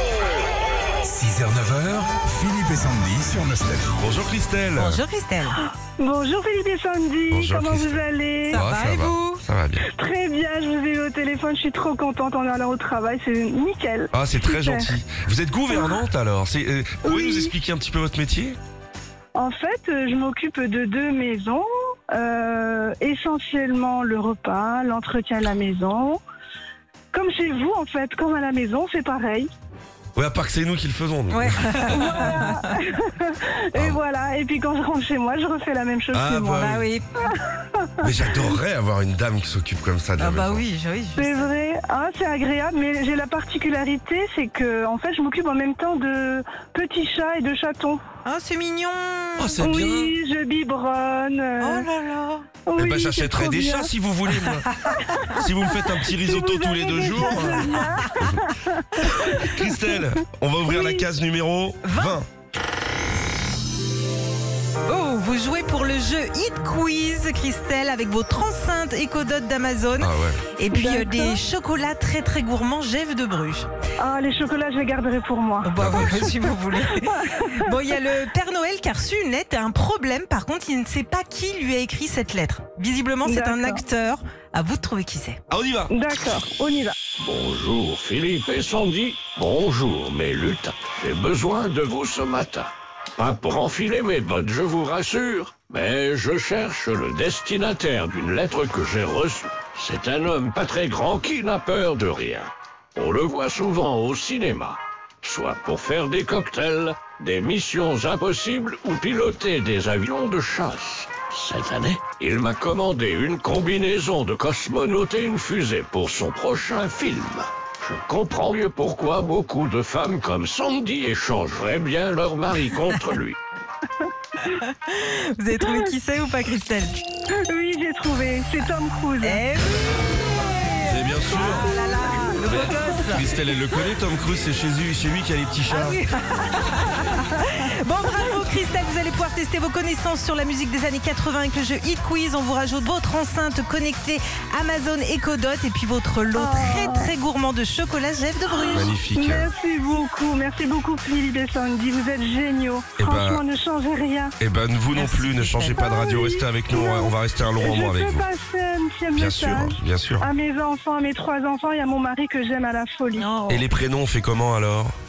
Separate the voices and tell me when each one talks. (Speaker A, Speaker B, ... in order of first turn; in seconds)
Speaker A: 1.0-4.0
Speaker B: 4.0-5.0, 7.3-9.9, 14.1-18.6, 30.1-32.1, 36.1-36.9, 38.0-40.6, 49.4-50.1, 52.8-54.7, 55.3-58.4, 59.2-62.3, 70.0-70.4, 75.8-76.3, 85.5-85.9, 130.8-131.8, 132.4-136.0, 148.7-149.5, 153.0-153.4, 154.4-158.3, 159.1-160.3, 163.5-164.9
Speaker C: 4.8-5.6, 8.5-9.4, 31.3-32.8, 36.6-37.1, 40.2-41.5, 48.2-49.6, 51.6-52.5, 57.7-58.1, 59.0-59.4, 61.8-62.2, 64.9-73.7, 75.6-85.4, 124.4-127.0, 129.2-133.3, 135.7-148.9, 154.9-155.8, 163.2-163.7
Speaker D: 6.0-8.6, 9.8-15.0, 15.7-16.1, 17.0-17.5, 19.4-26.2, 27.1-29.5, 31.9-36.7, 37.3-38.6, 41.2-48.0, 49.6-51.9, 52.7-53.9, 54.9-60.1, 60.6-61.1, 70.7-71.4, 74.0-77.6, 83.2-83.8, 85.9-87.0, 127.5-129.5, 146.3-147.2, 149.1-154.4, 155.7-163.3
Speaker E: 87.2-123.4